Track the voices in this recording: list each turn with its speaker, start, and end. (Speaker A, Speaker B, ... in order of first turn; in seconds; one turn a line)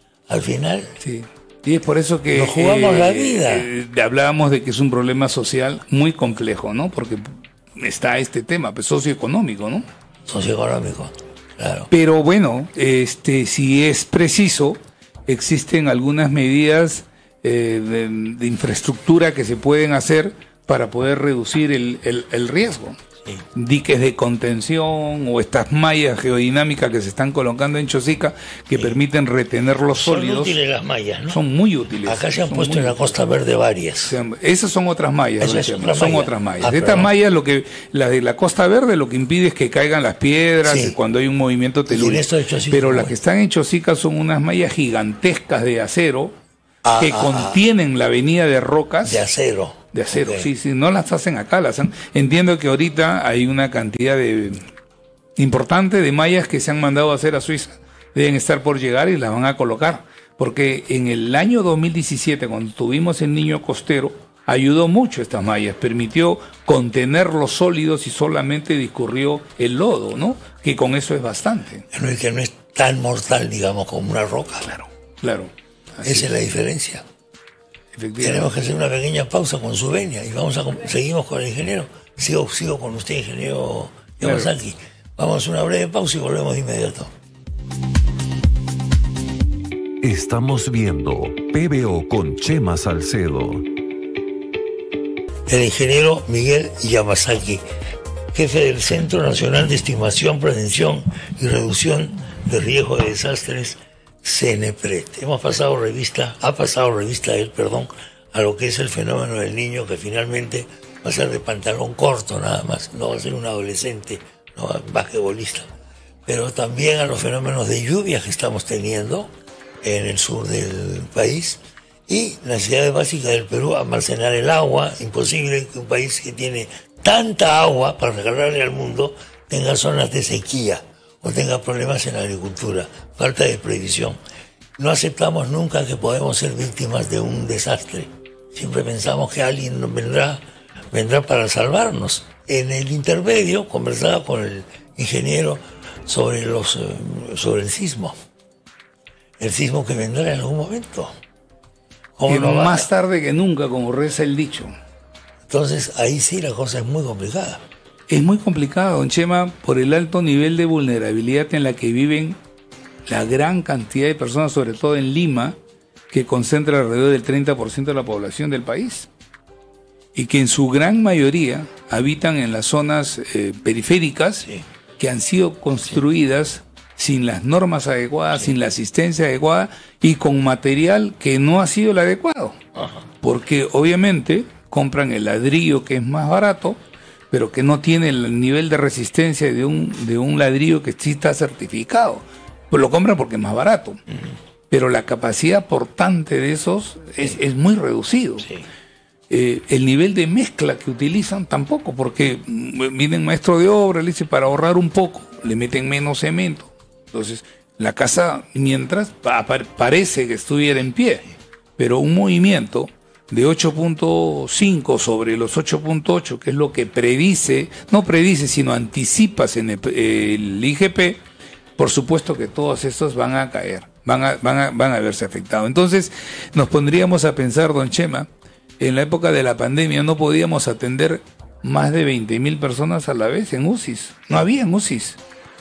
Speaker A: 0.3-0.9
Speaker B: 1.0-9.9
Speaker A: 2.3-3.7
Speaker A: 10.3-11.9
Speaker B: 11.9-23.0
Speaker B: 23.6-30.6
Speaker A: 28.7-29.0
Speaker A: 29.9-31.4
Speaker B: 31.3-33.2
Speaker A: 32.0-34.2
Speaker B: 34.0-46.3
Speaker A: 35.4-37.1
Speaker A: 40.6-41.0
Speaker A: 41.9-43.1
Speaker A: 46.8-47.6
Speaker B: 47.0-49.2
Speaker A: 49.0-50.5
Speaker B: 49.9-54.7
Speaker B: 55.4-71.9
Speaker A: 71.9-74.7
Speaker B: 74.6-76.4
Speaker A: 76.0-77.0
Speaker B: 77.9-78.5
Speaker A: 78.2-87.1
Speaker B: 84.2-84.5
Speaker C: 90.0-93.7
Speaker A: 95.5-97.6
Speaker A: 98.3-115.7
Speaker A: 116.3-119.3
Speaker A: 119.8-134.2
Speaker A: 134.8-140.4
Speaker A: 140.9-148.2
Speaker A: 149.4-151.1
Speaker A: 152.2-152.9
Speaker B: 152.3-154.7
Speaker A: 155.5-157.6
Speaker B: 158.1-162.4
Speaker B: 163.1-165.6
Speaker B: 166.1-169.1
Speaker B: 170.2-174.5
Speaker B: 175.0-182.6
Speaker A: 182.8-183.1
Speaker B: 183.2-186.8
Speaker B: 187.3-194.0
Speaker B: 194.7-198.5
Speaker A: 198.4-198.7
Speaker B: 199.3-221.2
Speaker B: 221.8-228.3
Speaker B: 228.8-235.2